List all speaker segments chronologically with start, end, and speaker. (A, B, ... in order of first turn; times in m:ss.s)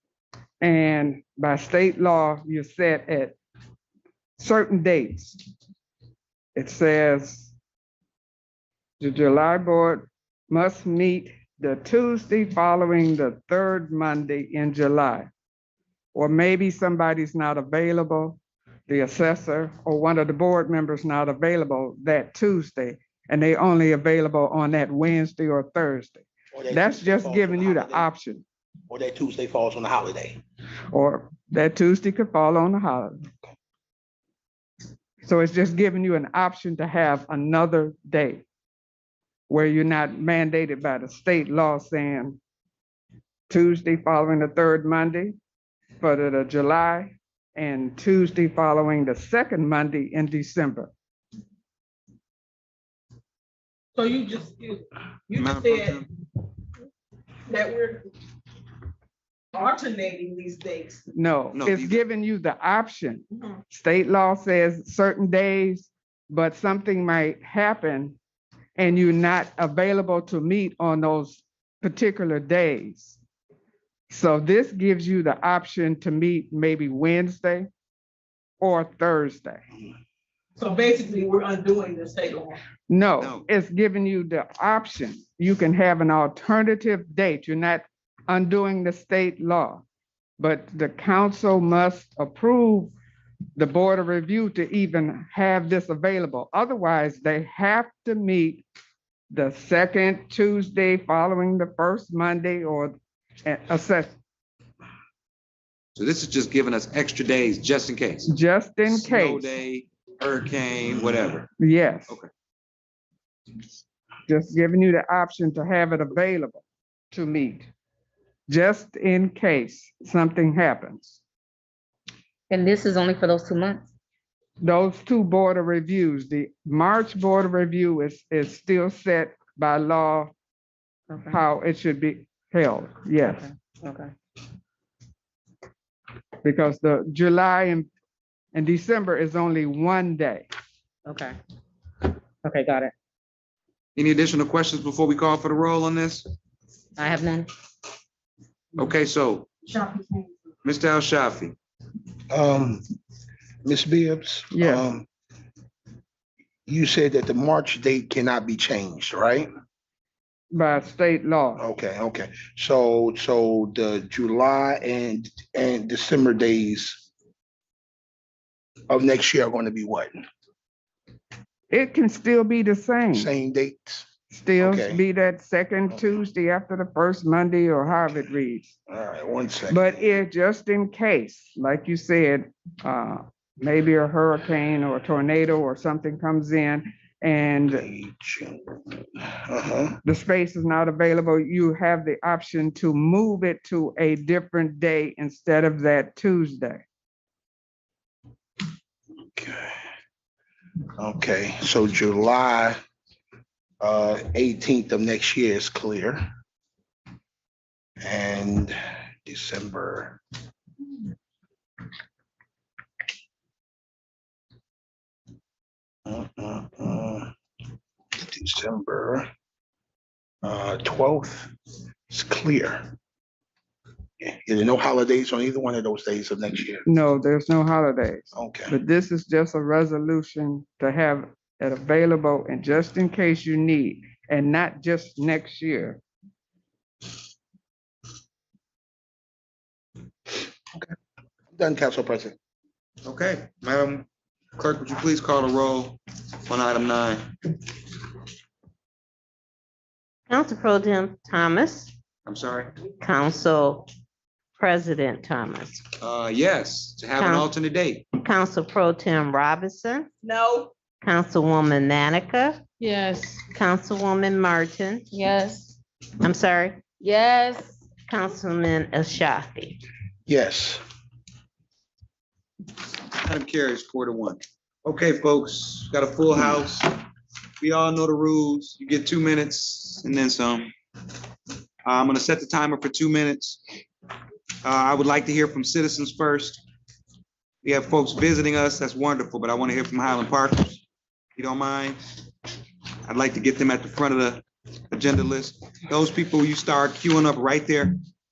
0:00.6-0:03.4 A
0:04.4-0:05.4 A
0:06.5-0:07.5 A
0:09.0-0:15.3 A
0:16.1-0:28.4 A
0:26.5-0:28.1 B
0:28.9-0:30.4 B
0:30.9-0:33.2 A
0:35.2-0:38.4 A
0:39.5-0:42.4 A
0:43.5-0:45.4 A
0:46.0-0:50.9 A
0:54.0-0:55.9 C
0:55.3-0:56.1 D
0:57.5-0:58.0 C
0:59.5-1:01.0 C
1:01.1-1:08.2 A
1:01.5-1:02.0 D
1:08.8-1:13.2 A
1:14.1-1:17.7 A
1:18.6-1:19.6 A
1:20.6-1:22.6 C
1:22.9-1:29.8 A
1:23.2-1:23.5 D
1:30.4-1:32.9 A
1:33.6-1:38.6 A
1:39.3-1:44.1 A
1:46.0-1:48.3 D
1:48.2-1:49.6 A
1:48.9-1:51.5 D
1:51.6-1:52.2 A
1:54.3-1:57.7 A
1:58.5-2:01.2 A
2:02.5-2:03.9 E
2:04.6-2:10.3 A
2:11.2-2:13.5 A
2:13.8-2:14.1 E
2:16.4-2:17.9 A
2:18.5-2:20.5 A
2:21.0-2:21.4 E
2:22.4-2:22.9 E
2:24.0-2:26.3 D
2:27.0-2:27.5 E
2:28.8-2:29.8 D
2:30.6-2:31.5 D
2:32.3-2:32.8 B
2:33.6-2:35.0 B
2:34.5-2:34.9 A
2:36.7-2:39.5 B
2:40.5-2:41.6 A
2:41.6-2:47.0 B
2:48.9-2:50.2 B
2:51.7-2:53.3 A
2:53.1-2:54.1 B
2:54.3-2:58.7 A
2:54.6-2:55.0 B
2:58.9-3:00.1 B
2:59.7-3:07.8 A
3:07.7-3:10.0 B
3:10.0-3:16.8 A
3:19.3-3:19.7 B
3:21.0-3:22.8 B
3:23.8-3:26.2 B
3:28.0-3:30.2 B
3:36.0-3:37.3 B
3:38.2-3:39.3 B
3:40.4-3:41.5 B
3:42.1-3:42.9 B
3:44.2-3:46.8 B
3:46.8-3:56.0 A
3:48.3-3:48.7 B
4:01.5-4:02.4 B
4:03.0-4:07.3 D
4:10.3-4:11.9 F
4:12.2-4:12.7 D
4:13.0-4:13.9 F
4:14.6-4:15.9 F
4:16.0-4:18.1 D
4:17.2-4:17.5 F
4:18.2-4:20.1 F
4:20.2-4:20.7 C
4:21.0-4:22.6 F
4:22.8-4:23.4 E
4:23.5-4:25.1 F
4:25.1-4:25.8 E
4:26.2-4:26.8 F
4:27.0-4:27.8 E
4:28.1-4:29.8 F
4:30.3-4:30.8 B
4:33.1-4:37.0 D
4:37.6-4:40.7 D
4:41.8-4:43.6 D
4:44.6-4:46.6 D
4:47.6-4:50.8 D
4:51.4-4:52.0 D
4:53.0-4:58.0 D